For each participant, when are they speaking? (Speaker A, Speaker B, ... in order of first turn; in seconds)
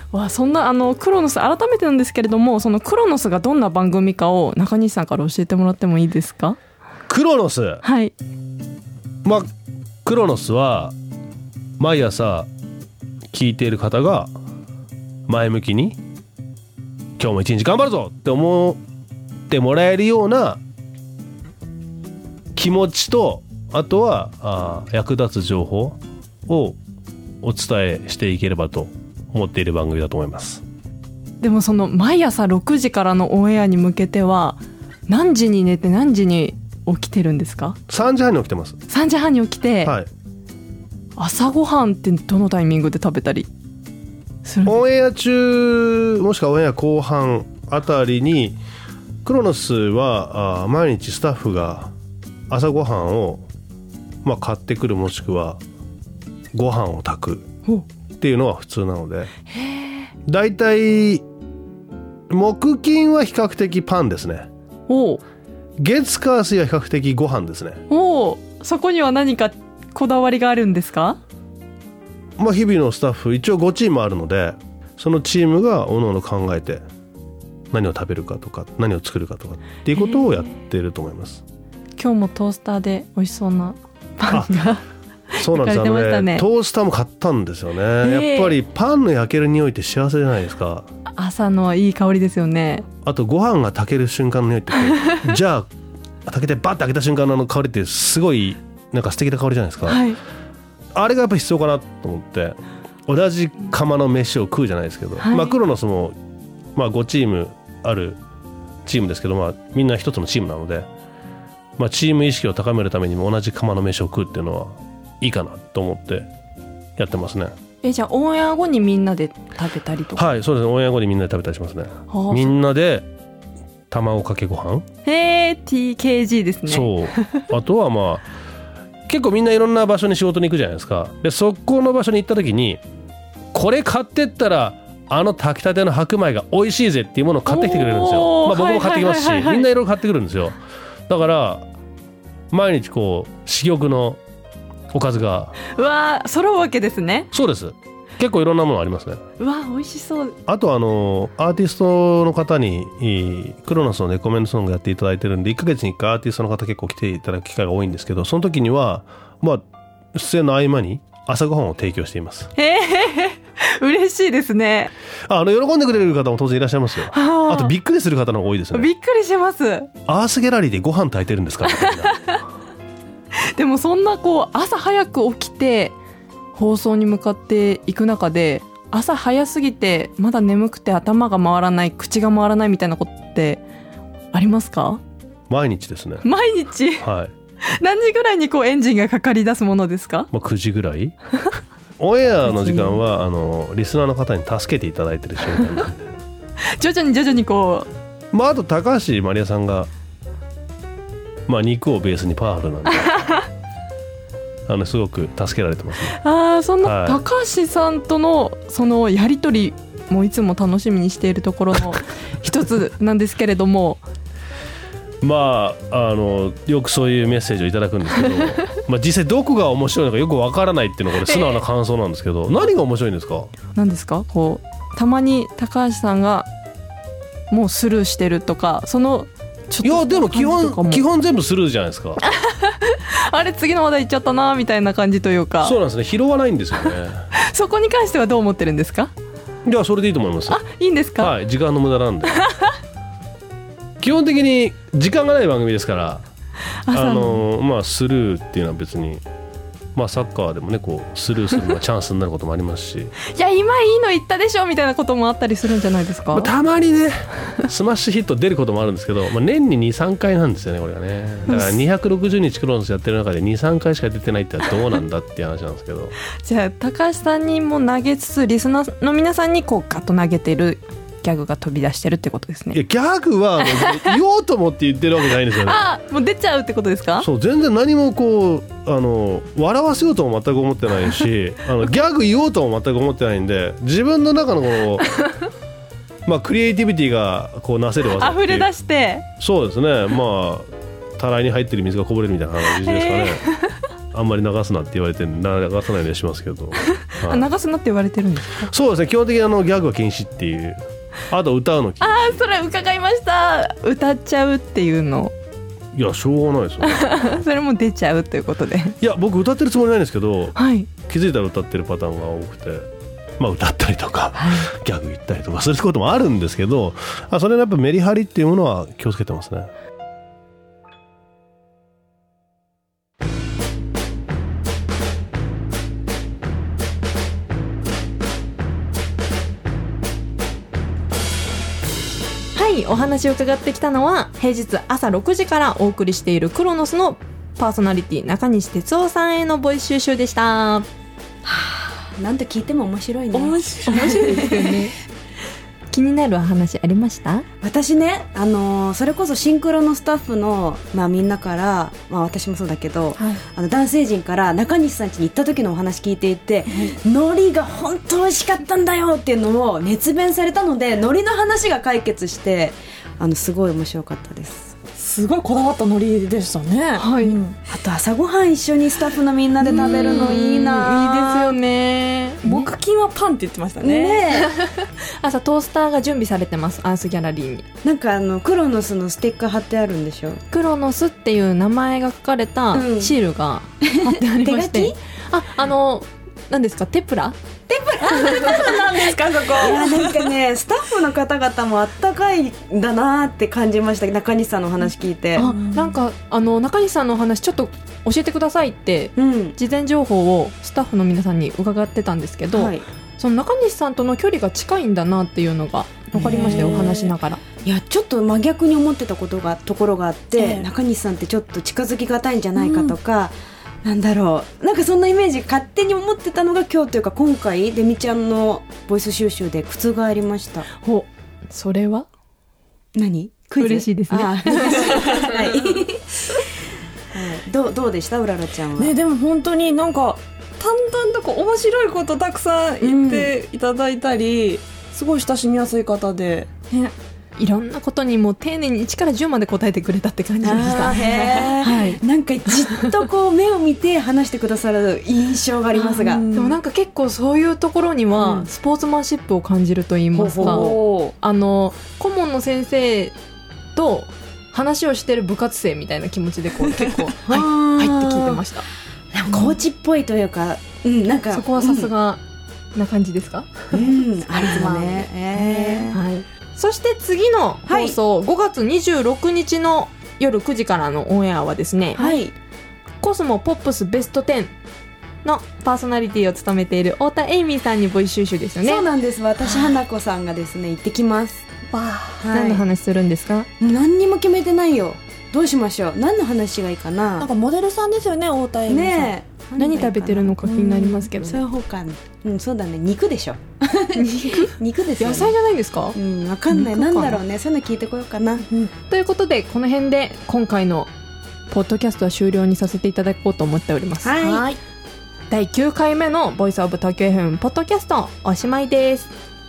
Speaker A: 0.1-6.6, 7.8-8.2, 31.4-37.8, 38.9-40.0, 41.2-43.5, 44.4-44.8, 59.5-60.1, 64.9-65.2, 67.9-71.2, 80.0-80.5, 82.0-86.5, 88.0-88.6, 91.1-92.9, 99.9-100.2, 105.2-105.6, 117.8-120.2, 122.1-122.5, 125.0-127.5, 137.5-139.7, 145.7-147.3, 149.4-150.4, 162.6-164.9, 167.1-167.8, 168.7-169.9, 171.7-172.4, 173.5-176.0, 176.5-183.6, 184.3-185.0, 186.2-187.1, 187.7-190.3, 192.5-193.0, 196.7-197.9, 206.1-214.0, 221.3-221.6, 223.7-226.5, 227.5-231.1, 232.2-235.8, 237.3-239.1, 240.5-241.3, 242.4-242.7, 246.8-247.4, 253.3-256.5, 261.5-261.8, 266.4-272.8, 273.6-274.2, 275.5-277.3, 288.1-289.3, 292.7-293.8, 296.8-298.7, 302.0-305.3, 306.8-309.0, 310.6-310.9, 314.4-314.7, 332.6-340.9, 343.9-344.9, 345.9-347.5, 367.0-367.4, 369.6-372.7, 374.4-377.6, 380.5-387.4, 388.1-388.9, 395.4-407.4, 420.7-422.1, 423.6-425.1, 436.7-442.0, 446.3-453.1, 453.8-458.7, 461.3-462.2, 462.8-463.9, 464.4-472.0, 473.0-474.5, 475.2-478.9, 482.3-483.5, 489.6-491.4, 493.9-496.0, 496.5-497.2, 498.9-500.9, 501.5-504.5, 505.3-509.1
Speaker B: 7.1-7.8, 10.1-10.9, 11.8-12.5, 13.3-14.3, 15.3-16.0, 17.2-18.8, 19.5-20.6, 22.6-26.8, 27.4-30.6, 37.9-38.8, 39.8-40.1, 44.6-48.6, 49.2-51.9, 52.5-53.5, 54.2-55.6, 56.5-57.5, 58.2-59.3, 60.3-61.2, 62.3-64.5, 65.8-67.8, 72.4-76.8, 77.7-81.4, 84.3-84.5, 85.4-90.9, 93.0-95.7, 96.3-100.1, 101.0-106.2, 106.8-108.2, 108.9-110.9, 111.8-116.3, 117.0-117.5, 120.2-123.1, 123.9-124.8, 126.7-128.2, 129.1-132.8, 133.5-141.7, 142.5-144.2, 144.9-145.6, 147.3-149.2, 150.5-162.5, 165.3-168.9, 170.1-172.2, 185.5-186.3, 187.0-187.3, 190.3-191.2, 192.0-196.1, 198.3-199.9, 201.5-203.1, 204.7-206.2, 206.8-207.2, 215.2-223.5, 229.8-232.2, 235.6-237.2, 239.7-240.6, 241.2-242.5, 244.0-246.2, 246.9-249.2, 249.9-253.1, 256.3-266.1, 272.7-275.9, 277.2-285.1, 286.3-288.7, 289.4-293.4, 294.1-297.5, 298.6-302.4, 305.9-307.4, 309.0-310.6, 311.1-312.9, 313.4-319.7
Speaker C: 341.4-344.7, 347.6-364.7, 367.7-371.4, 373.8-374.5, 377.8-380.4, 382.7-383.2, 383.8-385.0, 387.7-395.5, 399.2-399.6, 402.5-402.9, 406.1-407.0, 407.6-420.7, 422.9-426.0, 427.1-428.9, 432.8-433.3, 440.4-446.2, 448.2-448.5, 450.1-451.1, 457.2-458.4, 459.1-461.9, 463.7-466.0, 467.7-468.0, 472.0-472.3, 478.6-481.5, 482.2-482.7, 483.6-487.3, 488.7-495.4, 495.9-498.7, 504.0-504.6
Speaker D: 343.3-344.8, 364.9-367.6, 369.6-370.6, 372.4-374.4, 388.0-390.3, 395.4-396.0, 406.3-407.1, 410.4-410.7, 412.7-412.9, 424.9-425.5, 428.8-436.5, 440.5-442.0, 445.8-446.6, 450.4-451.1, 481.7-482.3, 487.2-489.2